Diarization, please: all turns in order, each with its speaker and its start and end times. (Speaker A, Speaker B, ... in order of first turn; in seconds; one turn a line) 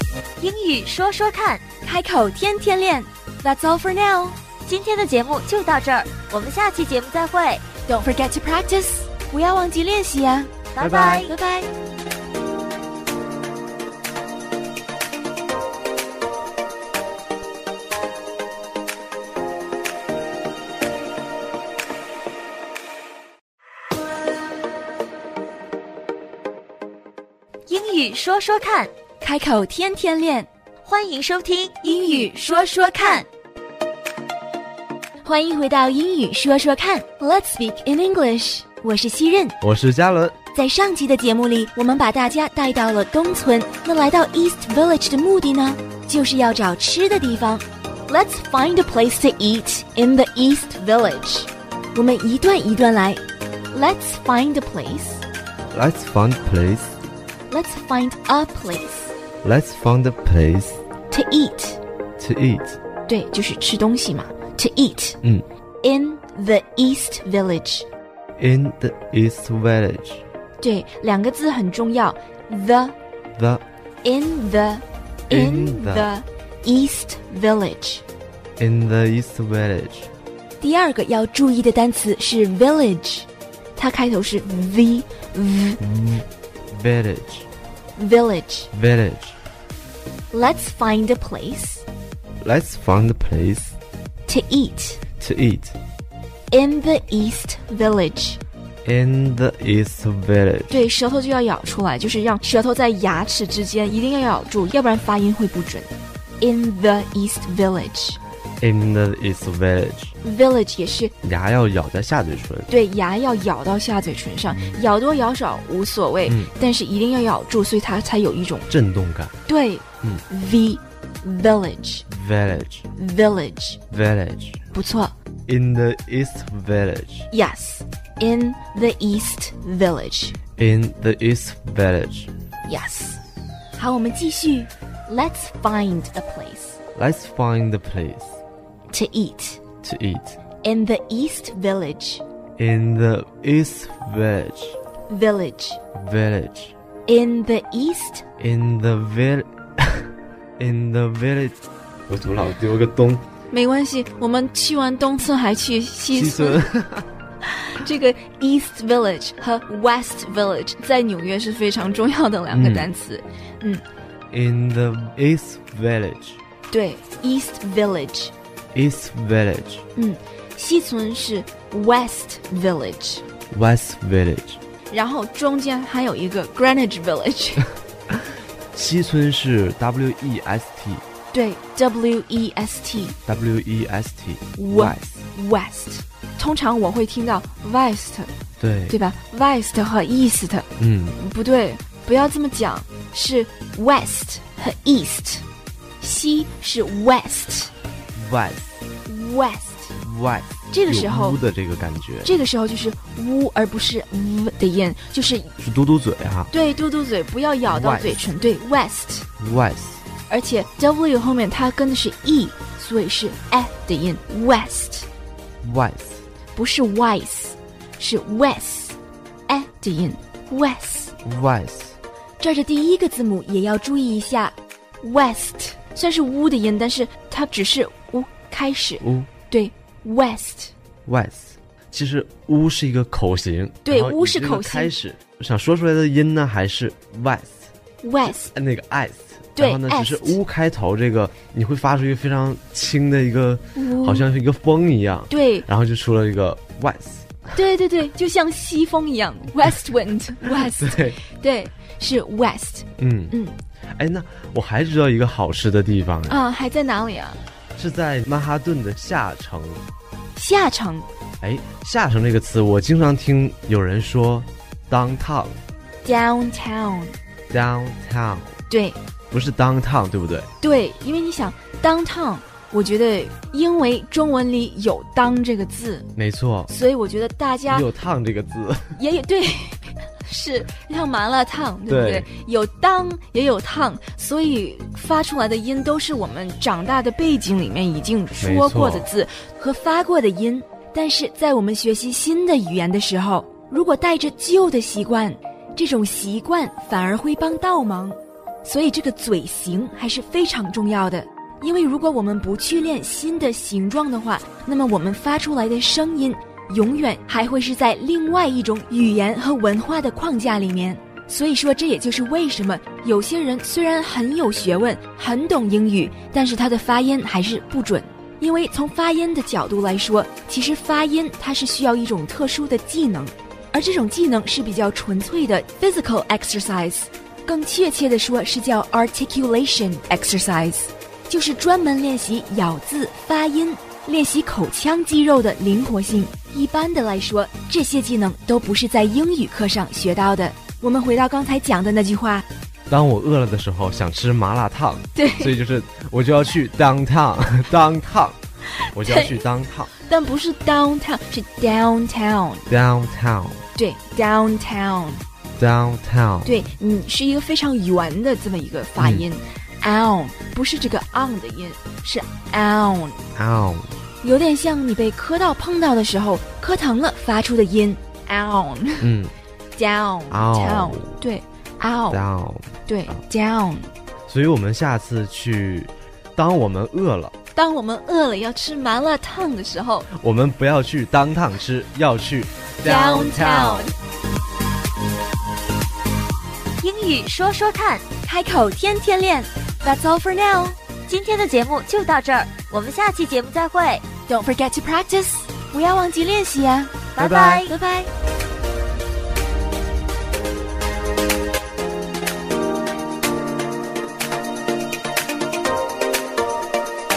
Speaker A: 0.4-1.6
Speaker B: 1.8-4.4
Speaker A: 4.7-7.6
Speaker B: 7.9-11.7
Speaker A: 10.8-11.3
Speaker C: 10.8-11.2
Speaker A: 27.7-28.9
Speaker B: 29.2-30.5
Speaker A: 30.9-32.4
Speaker B: 31.8-33.3
Speaker B: 35.2-39.6
Speaker C: 39.6-40.4
Speaker B: 40.5-55.2
Speaker C: 55.7-57.0
Speaker B: 57.5-59.1
Speaker C: 59.4-60.8
Speaker B: 61.1-61.8
Speaker C: 62.2-62.8
Speaker B: 63.1-65.2
Speaker B: 65.8-67.9
Speaker C: 68.4-70.2
Speaker B: 70.6-73.0
Speaker C: 73.4-73.6
Speaker B: 74.0-78.0
Speaker C: 75.3-76.1
Speaker C: 78.6-80.1
Speaker B: 80.6-85.8
Speaker C: 85.8-87.5
Speaker B: 88.0-88.7
Speaker C: 88.7-89.4
Speaker B: 90.3-91.8
Speaker C: 92.4-93.8
Speaker B: 94.3-95.0
Speaker C: 95.2-95.8
Speaker B: 96.5-98.4
Speaker C: 98.8-100.8
Speaker B: 100.7-108.2
Speaker C: 108.6-110.1
Speaker B: 110.2-111.1
Speaker C: 111.2-112.7
Speaker B: 112.7-118.7
Speaker C: 118.7-119.3
Speaker B: 119.5-122.1
Speaker C: 122.1-122.9
Speaker B: 123.0-123.8
Speaker C: 123.9-124.6
Speaker B: 124.7-125.1
Speaker C: 125.5-127.3
Speaker B: 127.3-130.4
Speaker C: 130.6-132.3
Speaker B: 132.7-133.2
Speaker B: 133.8-136.8
Speaker C: 136.9-138.4
Speaker B: 138.9-139.6
Speaker C: 139.8-140.4
Speaker B: 140.6-142.2
Speaker C: 142.6-144.8
Speaker B: 145.1-145.8
Speaker C: 145.9-146.7
Speaker B: 147.1-148.2
Speaker C: 148.4-153.2
Speaker B: 153.5-156.7
Speaker C: 156.1-157.1
Speaker B: 157.5-163.8
Speaker C: 162.5-162.9
Speaker C: 164.3-166.4
Speaker B: 166.7-168.3
Speaker C: 168.7-169.8
Speaker B: 169.9-173.2
Speaker C: 173.5-174.6
Speaker B: 174.9-177.7
Speaker C: 178.7-181.0
Speaker B: 181.3-183.2
Speaker C: 183.3-185.3
Speaker B: 184.6-188.3
Speaker C: 188.6-189.0
Speaker B: 188.9-195.4
Speaker C: 190.8-191.2
Speaker B: 196.0-197.7
Speaker C: 198.2-198.8
Speaker B: 199.1-199.9
Speaker C: 200.0-202.3
Speaker B: 200.7-201.4
Speaker B: 202.2-205.5
Speaker C: 205.6-206.5
Speaker B: 206.5-209.3
Speaker C: 207.7-208.3
Speaker C: 209.4-210.0
Speaker B: 210.3-215.1
Speaker C: 215.6-216.2
Speaker B: 216.6-219.0
Speaker B: 219.5-221.2
Speaker C: 221.2-222.0
Speaker B: 222.4-230.7
Speaker C: 229.0-229.3
Speaker C: 231.1-237.7
Speaker B: 233.8-234.9
Speaker B: 238.0-238.5
Speaker C: 238.4-247.5
Speaker B: 239.6-240.4
Speaker B: 243.8-244.3
Speaker B: 245.3-245.7
Speaker B: 247.5-253.6
Speaker C: 250.5-251.2
Speaker C: 253.0-253.4
Speaker C: 254.0-256.4
Speaker B: 256.3-257.4
Speaker C: 257.8-259.8
Speaker B: 260.4-261.1
Speaker C: 261.4-265.6
Speaker B: 266.0-267.2
Speaker C: 267.5-268.6
Speaker B: 268.7-269.0
Speaker C: 269.3-270.5
Speaker B: 270.6-276.1
Speaker C: 276.2-276.7
Speaker B: 276.7-277.9
Speaker C: 277.7-279.0
Speaker B: 279.0-342.4
Speaker C: 281.9-282.3
Speaker C: 288.4-289.1
Speaker C: 342.9-349.9
Speaker B: 345.2-345.6
Speaker B: 348.8-349.3
Speaker B: 350.0-352.7
Speaker C: 352.7-353.6
Speaker B: 353.8-355.2
Speaker C: 355.6-356.6
Speaker B: 356.5-363.2
Speaker C: 359.0-359.3
Speaker C: 363.4-364.0
Speaker B: 364.2-369.1
Speaker C: 369.0-369.3
Speaker B: 369.8-372.2
Speaker C: 370.3-371.2
Speaker C: 372.1-373.2
Speaker B: 372.9-373.9
Speaker C: 374.3-377.3
Speaker B: 377.6-380.1
Speaker C: 380.1-383.9
Speaker B: 382.8-383.9
Speaker A: 386.8-388.0
Speaker B: 388.2-390.8
Speaker A: 391.1-394.0
Speaker B: 394.3-398.1
Speaker A: 397.2-397.7
Speaker C: 397.2-397.6